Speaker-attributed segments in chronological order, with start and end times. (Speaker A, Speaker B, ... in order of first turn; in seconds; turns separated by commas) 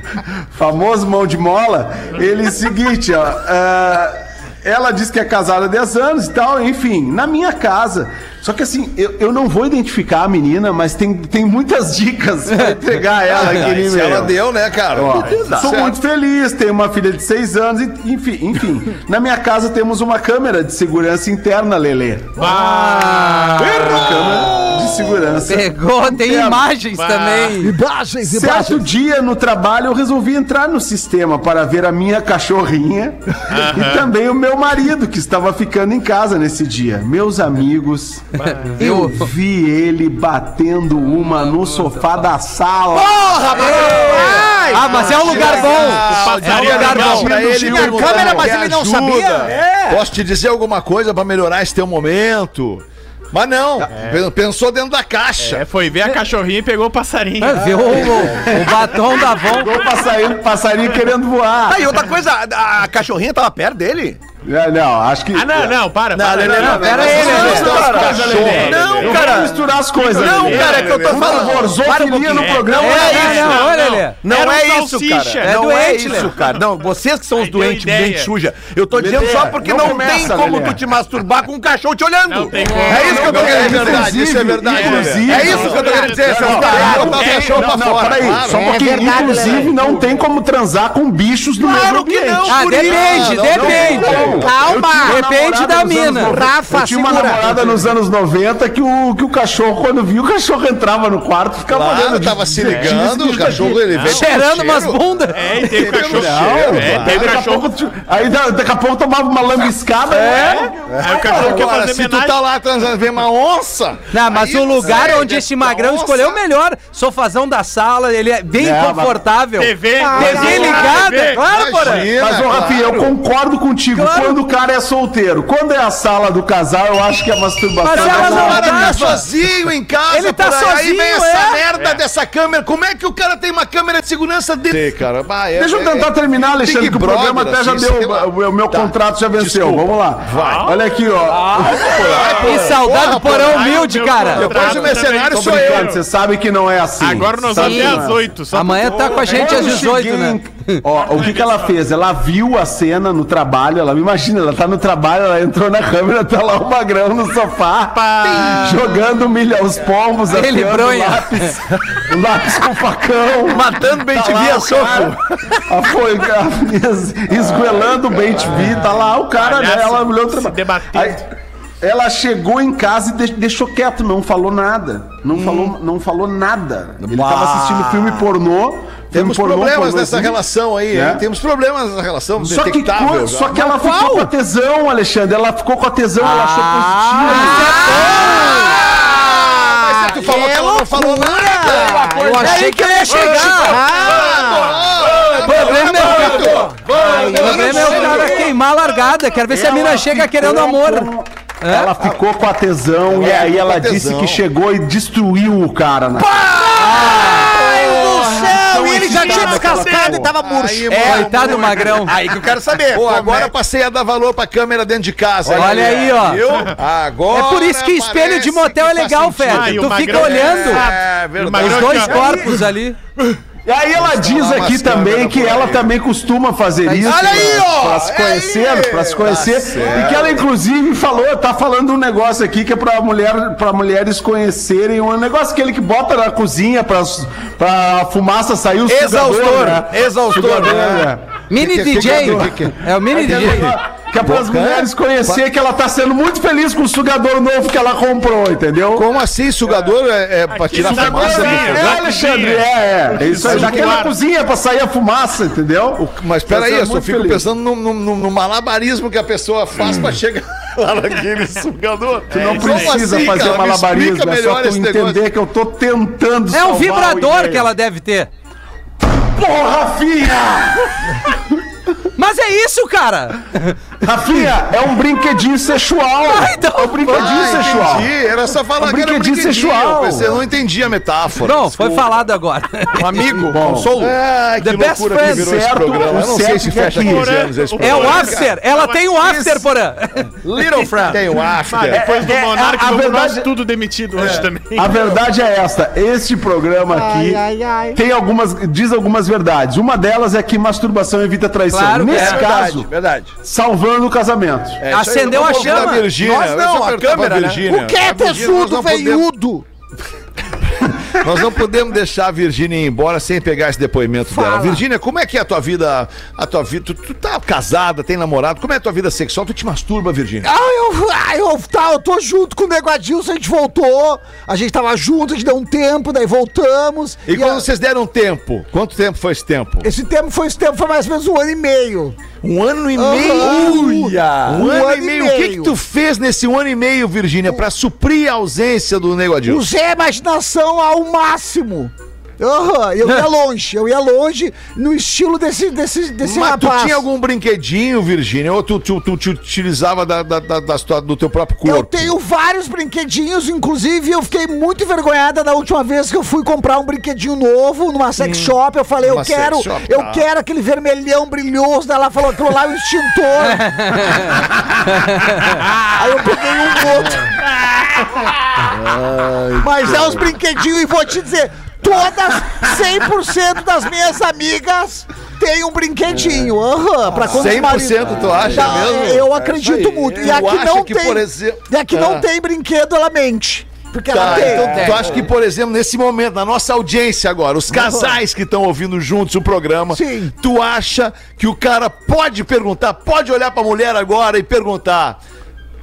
Speaker A: 0.5-14.3, Speaker B: 12.5-12.8, Speaker C: 13.2-16.0, Speaker A: 14.9-22.6, Speaker D: 15.1-15.8, Speaker E: 22.4-23.6, Speaker B: 22.4-23.9, Speaker C: 23.6-25.3, Speaker A: 23.8-26.7, Speaker B: 25.4-27.7, Speaker E: 26.9-27.6, Speaker F: 27.6-28.9, Speaker A: 28.2-38.2, Speaker E: 33.5-34.1, Speaker E: 38.4-38.7, Speaker B: 38.4-39.3, Speaker A: 38.8-43.3, Speaker B: 41.2-42.2, Speaker C: 42.9-55.6, Speaker B: 43.5-47.3, Speaker F: 43.7-46.0, Speaker E: 45.5-47.3, Speaker A: 46.5-48.5, Speaker F: 47.3-49.6, Speaker D: 49.5-49.9, Speaker E: 53.9-54.2, Speaker E: 55.4-57.6, Speaker B: 57.4-59.7, Speaker A: 57.6-61.9, Speaker D: 61.7-64.2, Speaker A: 64.4-65.7, Speaker E: 65.3-69.3, Speaker C: 66.1-69.2, Speaker A: 66.4-73.5, Speaker B: 66.6-67.8, Speaker D: 67.6-73.7, Speaker E: 70.0-71.5, Speaker C: 70.3-71.8, Speaker E: 72.2-76.4, Speaker B: 72.7-74.2, Speaker D: 74.2-83.8, Speaker B: 75.4-76.3, Speaker E: 77.3-78.3, Speaker A: 78.9-80.8, Speaker E: 82.3-87.7, Speaker A: 82.7-103.8, Speaker C: 82.9-88.7, Speaker F: 86.6-87.2, Speaker F: 88.5-90.1, Speaker C: 91.6-94.7, Speaker B: 92.5-94.3, Speaker F: 94.2-95.4, Speaker B: 95.0-96.4, Speaker F: 96.3-97.6, Speaker C: 101.7-107.4, Speaker E: 102.6-103.0, Speaker E: 103.9-104.2, Speaker B: 104.0-105.3, Speaker E: 105.3-107.7, Speaker A: 105.7-111.7, Speaker C: 110.1-116.4, Speaker B: 110.1-110.7, Speaker E: 110.3-112.4, Speaker B: 114.1-122.1, Speaker A: 118.5-119.2, Speaker E: 119.6-121.4, Speaker F: 120.0-121.0, Speaker A: 120.3-120.7, Speaker C: 120.4-120.6, Speaker C: 121.3-123.2, Speaker A: 122.2-129.0, Speaker B: 123.9-124.4, Speaker B: 127.8-129.2, Speaker C: 127.9-140.7, Speaker B: 130.1-131.6, Speaker E: 131.8-132.0, Speaker A: 135.6-142.3, Speaker E: 140.3-140.8, Speaker C: 141.7-143.8, Speaker B: 142.4-144.6, Speaker E: 143.2-146.0, Speaker C: 144.3-145.9, Speaker A: 144.7-148.2, Speaker E: 147.0-149.7, Speaker B: 147.6-150.8, Speaker A: 149.0-165.1, Speaker E: 151.1-151.7, Speaker E: 157.9-159.0, Speaker B: 160.3-161.6, Speaker D: 163.5-165.2, Speaker A: 165.7-171.2, Speaker C: 167.8-168.6, Speaker E: 169.3-171.2, Speaker A: 171.8-180.4, Speaker C: 175.3-175.7, Speaker D: 177.0-178.3, Speaker C: 179.1-183.6, Speaker A: 180.9-181.2, Speaker A: 182.4-187.8, Speaker B: 183.5-184.3, Speaker B: 186.2-188.7, Speaker F: 187.1-194.8, Speaker C: 187.3-198.5, Speaker B: 192.2-193.8, Speaker E: 193.1-194.6, Speaker B: 195.4-196.6, Speaker A: 195.7-196.0, Speaker F: 195.7-198.4, Speaker D: 196.2-198.5, Speaker B: 197.3-201.9, Speaker A: 199.4-206.3, Speaker C: 203.1-204.4, Speaker C: 206.2-208.4, Speaker F: 206.4-211.5, Speaker B: 206.8-207.5, Speaker A: 208.2-210.3, Speaker C: 209.1-212.3, Speaker B: 210.9-212.1, Speaker D: 211.5-213.5, Speaker C: 212.9-222.6, Speaker D: 215.4-216.5, Speaker B: 215.5-216.4, Speaker E: 216.5-216.7, Speaker B: 217.3-220.8, Speaker E: 219.4-222.2, Speaker B: 221.6-222.9, Speaker A: 223.7-241.2, Speaker C: 223.9-225.9, Speaker B: 226.8-227.6, Speaker C: 227.0-230.4, Speaker D: 238.9-241.1, Speaker C: 240.6-245.4, Speaker B: 241.5-243.8, Speaker A: 241.9-249.1, Speaker C: 248.9-252.1, Speaker E: 250.5-254.2, Speaker A: 250.7-257.4, Speaker C: 253.4-254.0, Speaker C: 256.0-265.3, Speaker E: 262.3-263.5, Speaker A: 262.3-267.7, Speaker B: 266.5-268.3, Speaker A: 269.1-271.4, Speaker B: 272.1-274.6, Speaker A: 274.0-278.1, Speaker B: 276.2-277.4, Speaker C: 277.1-282.1, Speaker A: 278.8-280.4, Speaker B: 281.4-283.4, Speaker D: 282.9-284.2, Speaker A: 283.4-283.9, Speaker C: 284.0-288.5, Speaker B: 284.6-285.6, Speaker A: 285.2-287.3, Speaker E: 286.9-289.1, Speaker B: 287.8-290.3, Speaker D: 289.2-289.6, Speaker D: 290.4-291.3, Speaker C: 290.8-292.0, Speaker E: 291.4-295.0, Speaker A: 291.9-293.5, Speaker D: 294.2-295.3, Speaker A: 294.7-297.4, Speaker F: 296.9-298.0, Speaker A: 297.9-302.9, Speaker B: 301.7-302.4, Speaker D: 302.1-303.3, Speaker A: 303.4-304.8, Speaker D: 304.8-307.6, Speaker B: 304.9-306.1, Speaker C: 305.3-309.2, Speaker F: 307.6-309.6, Speaker C: 311.1-320.5, Speaker F: 314.2-314.8, Speaker F: 320.4-327.6, Speaker C: 327.3-329.9, Speaker F: 329.8-332.2, Speaker C: 332.4-339.7, Speaker F: 332.9-335.7, Speaker D: 333.4-334.6, Speaker F: 339.4-347.0, Speaker C: 346.2-352.1, Speaker F: 351.6-364.5, Speaker C: 359.0-360.2, Speaker B: 363.4-365.6, Speaker E: 365.9-366.2, Speaker F: 365.9-367.4, Speaker D: 368.7-370.3, Speaker F: 369.6-385.1, Speaker D: 376.1-376.5, Speaker D: 377.1-380.4, Speaker C: 377.3-379.3, Speaker C: 380.1-382.3, Speaker C: 384.1-395.2, Speaker D: 384.2-385.3, Speaker F: 387.7-388.1, Speaker F: 389.9-390.3